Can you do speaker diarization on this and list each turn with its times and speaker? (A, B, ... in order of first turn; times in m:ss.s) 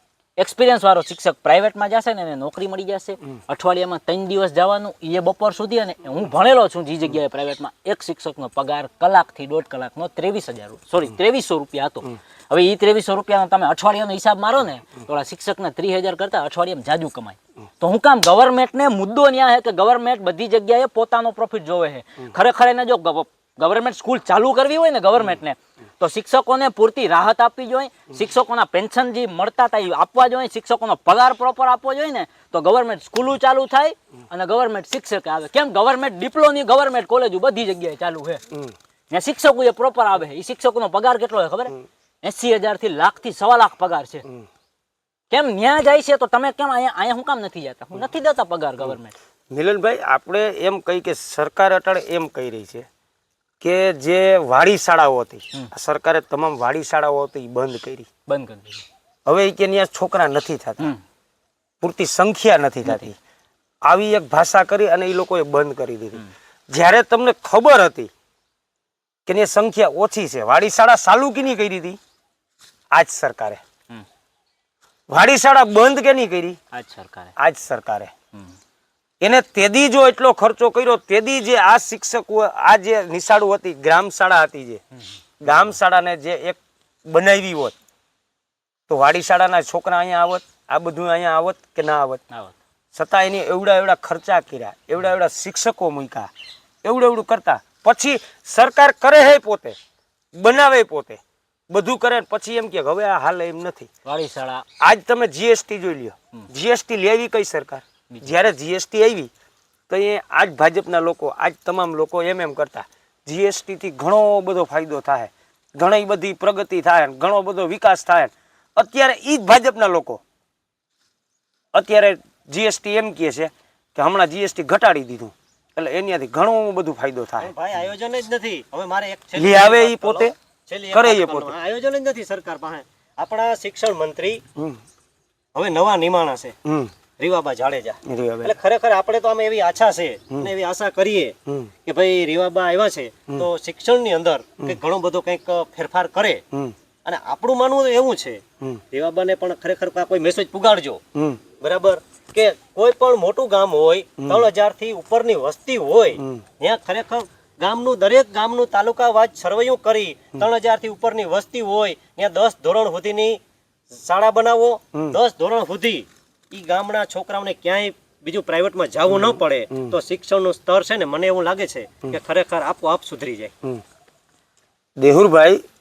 0:00.4-0:38.4 A
0:39.1-0:44.3 A
0:45.3-0:49.2 A
0:49.5-0:52.9 B
0:53.6-0:58.1 B
0:58.3-0:58.8 A
0:59.3-1:00.9 B
1:01.8-1:03.1 B
1:02.8-1:03.1 A
1:03.9-1:08.1 B
1:09.3-1:12.0 B
1:12.9-1:13.6 B
1:15.1-1:16.6 B
1:16.7-1:17.3 A
1:17.4-1:18.1 B
1:19.2-1:24.8 B
1:25.4-1:27.8 B
1:28.9-1:32.2 B
1:32.9-1:36.3 B
1:36.8-1:39.8 B
1:40.4-1:43.9 B
1:44.0-1:44.7 A
1:44.8-1:49.3 B
1:49.9-2:00.2 B
2:01.7-2:07.5 B
2:07.4-2:14.4 C
2:09.4-2:10.4 B
2:10.9-2:11.6 B
2:15.6-2:16.6 C
2:16.6-2:16.9 B
2:17.2-2:26.4 C
2:18.0-2:18.6 B
2:27.0-2:31.0 C
2:31.2-2:31.4 B
2:31.6-2:43.4 C
2:34.2-2:34.5 B
2:43.9-2:53.5 C
2:49.1-2:49.9 B
2:55.0-2:55.6 B